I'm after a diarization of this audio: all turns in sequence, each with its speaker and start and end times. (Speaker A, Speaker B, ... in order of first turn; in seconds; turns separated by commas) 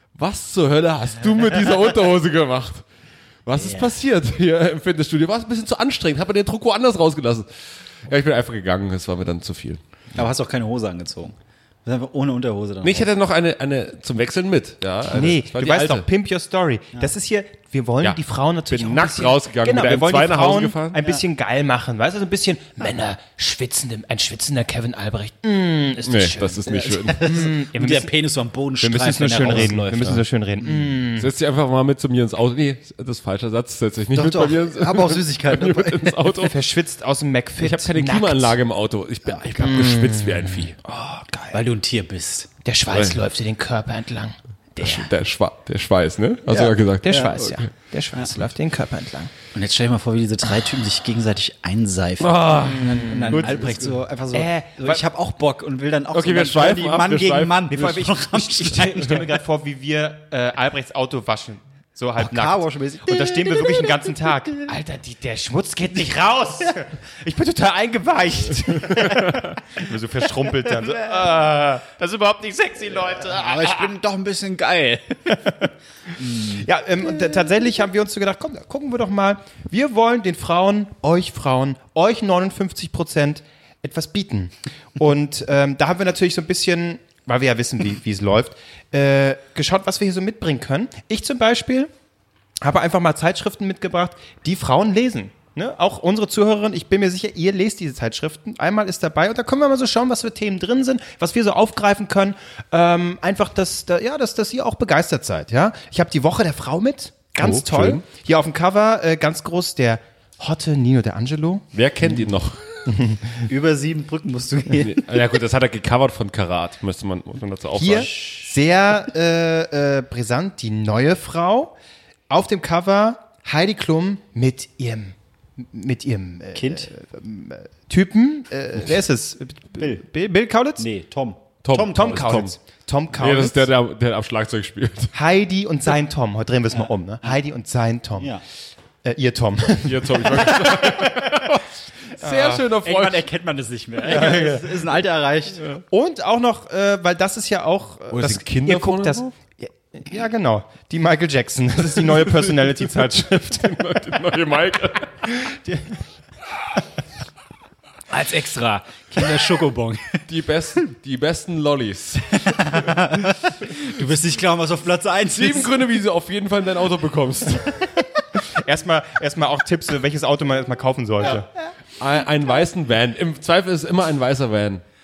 Speaker A: 0.1-2.8, Speaker B: 1.4-1.7, Speaker A: 3.5-9.8, Speaker B: 3.5-3.9, Speaker B: 10.1-13.1, Speaker A: 12.8-16.1, Speaker C: 15.1-28.1, Speaker A: 18.0-21.0, Speaker A: 26.0-27.5, Speaker B: 26.6-29.9, Speaker C: 28.8-31.3, Speaker A: 29.4-30.2, Speaker A: 31.1-36.6, Speaker B: 34.1-36.4, Speaker C: 36.4-38.5, Speaker A: 37.6-40.8, Speaker C: 39.6-41.6, Speaker B: 41.5-42.5, Speaker C: 42.6-45.1, Speaker A: 44.8-47.6, Speaker B: 46.5-47.3, Speaker C: 46.5-49.3, Speaker B: 48.1-48.4, Speaker B: 49.5-59.3, Speaker A: 52.2-53.9, Speaker C: 52.8-55.0, Speaker A: 56.1-58.1, Speaker C: 57.8-73.9, Speaker B: 62.2-64.3, Speaker B: 73.2-76.7, Speaker C: 76.3-91.9, Speaker C: 92.6-111.7, Speaker A: 107.4-108.0, Speaker A: 111.7-112.8, Speaker C: 112.9-113.4, Speaker B: 113.5-115.2, Speaker A: 114.8-118.2, Speaker C: 117.7-121.7, Speaker C: 122.3-130.9, Speaker B: 126.5-126.9, Speaker B: 129.8-130.0, Speaker B: 130.8-132.3, Speaker A: 131.6-132.5, Speaker C: 131.8-133.7, Speaker A: 133.1-135.1, Speaker C: 135.1-138.3, Speaker B: 136.7-137.4, Speaker B: 138.2-138.4, Speaker C: 139.0-141.6, Speaker A: 139.8-143.3, Speaker C: 142.2-142.7, Speaker B: 142.7-145.7, Speaker C: 144.1-144.7, Speaker C: 145.9-153.8, Speaker A: 148.1-149.3, Speaker A: 152.8-155.3, Speaker C: 155.4-155.9, Speaker B: 158.1-160.2, Speaker A: 160.3-163.2, Speaker B: 162.4-165.8, Speaker A: 165.3-167.8, Speaker C: 168.4-171.5, Speaker A: 172.0-174.8